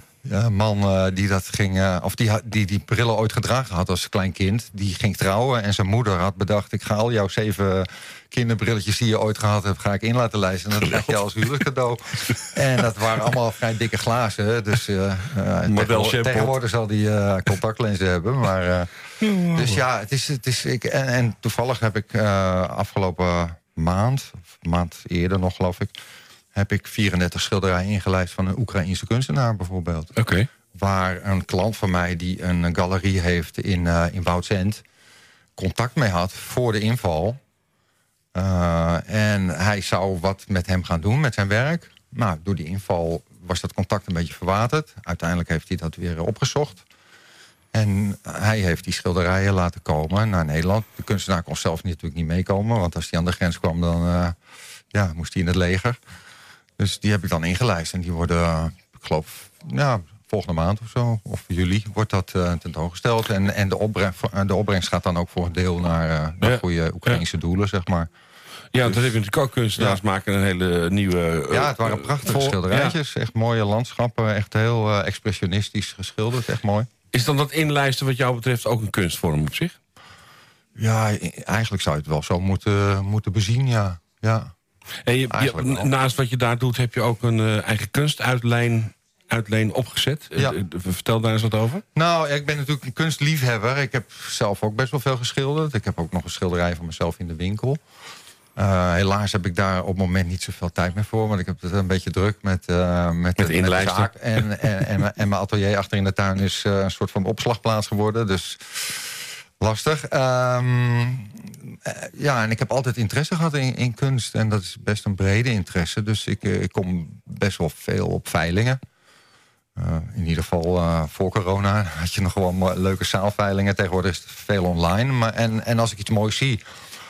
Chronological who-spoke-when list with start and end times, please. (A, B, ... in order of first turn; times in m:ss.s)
0:00.2-0:18.9 A
0:10.8-0:11.2 B
0:15.7-0:16.5 B
0:19.2-0:19.8 B
0:19.5-0:25.9 A
0:26.5-0:30.1 A
0:30.2-0:30.5 B
0:30.7-0:34.8 A
0:35.6-0:37.4 A
0:38.3-0:46.8 A
0:47.7-0:54.4 A
0:54.9-0:56.0 A
0:56.8-1:08.1 A
1:06.4-1:07.2 B
1:08.7-1:12.9 B
1:11.5-1:16.9 A
1:17.1-1:19.7 B
1:20.8-1:24.5 A
1:25.0-1:31.8 B
1:25.3-1:25.9 A
1:31.9-1:37.8 A
1:38.6-1:58.8 A
1:43.4-1:44.5 B
1:59.8-2:06.6 A